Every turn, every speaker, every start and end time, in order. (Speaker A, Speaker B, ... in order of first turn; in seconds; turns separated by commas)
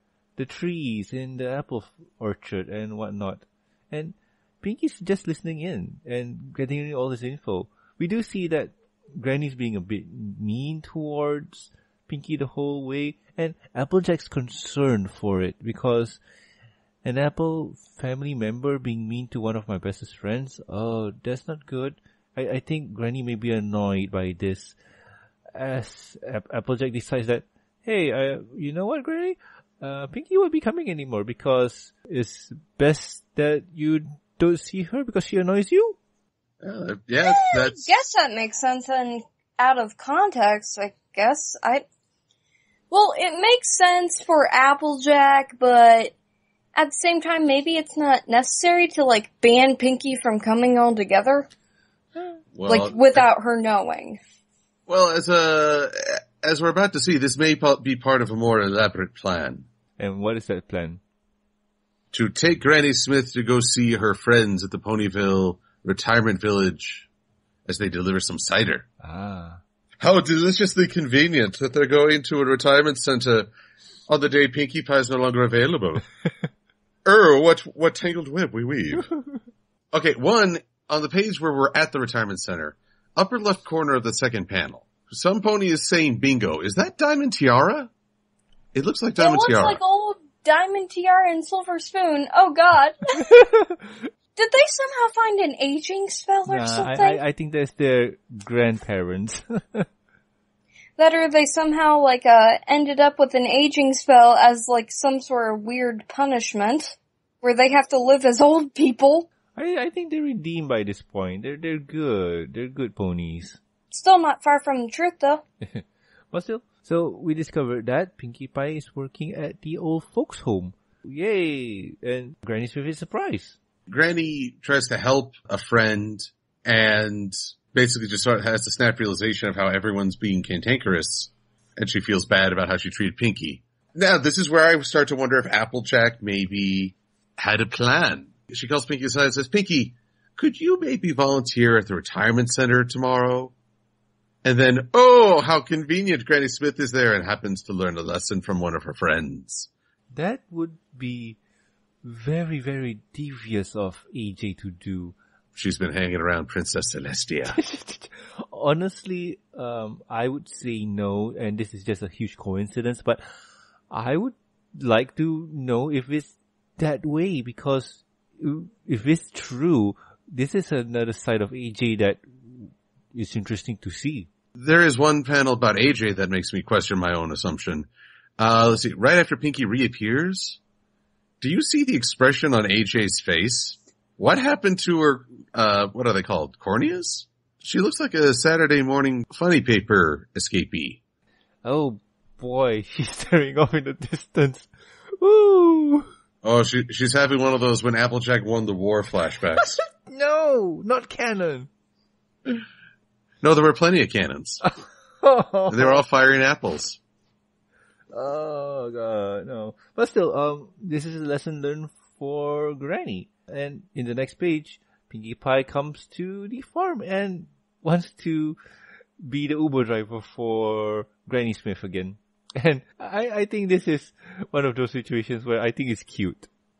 Speaker A: 0.4-16.2, Speaker A: 17.0-24.8, Speaker A: 25.5-36.0, Speaker B: 36.6-37.9, Speaker C: 37.2-41.8, Speaker C: 42.9-46.1, Speaker C: 46.8-51.5, Speaker B: 52.5-53.2, Speaker C: 52.6-54.2, Speaker B: 54.9-59.6, Speaker A: 60.0-61.0, Speaker B: 62.1-67.1, Speaker B: 67.7-68.9, Speaker A: 69.0-69.6, Speaker B: 70.0-73.5, Speaker B: 74.1-76.0, Speaker B: 77.0-79.1, Speaker A: 79.1-79.4, Speaker B: 79.9-87.9, Speaker B: 88.7-89.8, Speaker C: 89.2-93.4, Speaker A: 93.2-94.0, Speaker C: 94.4-97.2, Speaker A: 96.5-99.9, Speaker C: 101.0-109.3, Speaker A: 109.5-113.6, Speaker C: 113.9-115.4, Speaker A: 115.6-123.6, Speaker B: 123.9-143.5, Speaker B: 144.4-149.7, Speaker A: 150.1-151.4, Speaker A: 152.0-155.2, Speaker B: 155.5-157.6, Speaker A: 157.5-163.2, Speaker A: 163.9-174.3, Speaker B: 174.6-180.6, Speaker B: 181.4-191.0, Speaker A: 191.6-194.7, Speaker A: 195.2-196.1, Speaker B: 196.4-199.8, Speaker A: 200.0-201.7, Speaker B: 203.4-204.6, Speaker A: 205.2-206.0, Speaker B: 205.7-207.0, Speaker A: 208.1-218.6, Speaker A: 219.2-226.5